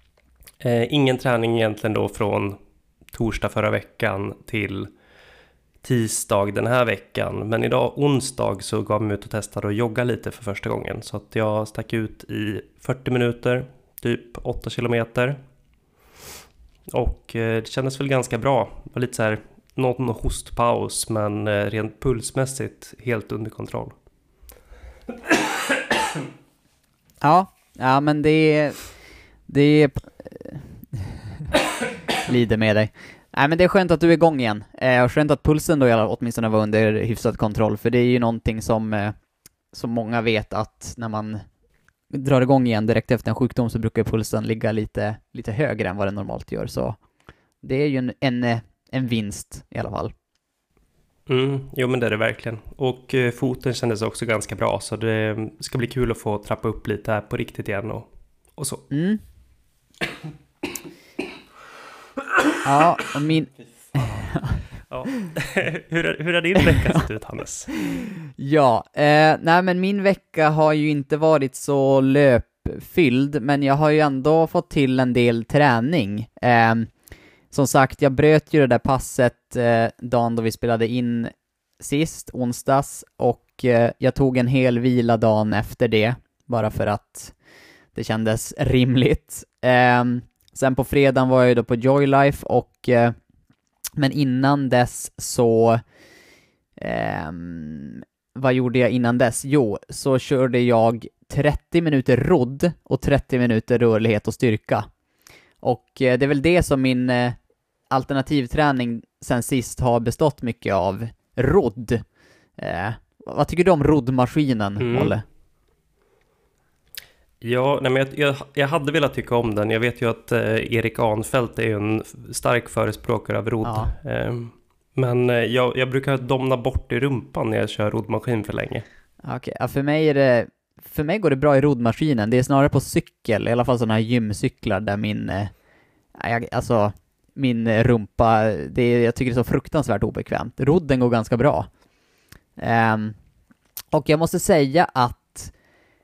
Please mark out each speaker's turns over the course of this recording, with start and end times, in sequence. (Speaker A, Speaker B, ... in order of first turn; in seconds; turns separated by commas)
Speaker A: 0.6-2.6, Speaker A: 3.1-4.9, Speaker A: 5.8-15.4, Speaker A: 16.9-23.9, Speaker B: 27.2-28.9, Speaker B: 29.5-31.1, Speaker B: 32.2-39.1, Speaker B: 39.7-41.4, Speaker B: 42.1-47.0, Speaker B: 47.6-50.1, Speaker A: 51.3-58.9, Speaker B: 58.9-59.2, Speaker B: 62.6-64.6, Speaker A: 64.0-64.3, Speaker A: 64.9-67.7, Speaker B: 67.8-76.9, Speaker B: 77.5-87.3, Speaker B: 87.9-93.2, Speaker B: 94.0-95.8, Speaker B: 96.8-104.9, Speaker B: 105.6-107.4, Speaker B: 107.9-112.0, Speaker B: 112.6-115.2, Speaker A: 114.8-115.1, Speaker A: 117.4-128.8, Speaker B: 123.6-123.9, Speaker B: 129.2-135.5, Speaker B: 136.1-141.7, Speaker B: 142.6-143.2, Speaker B: 143.9-145.5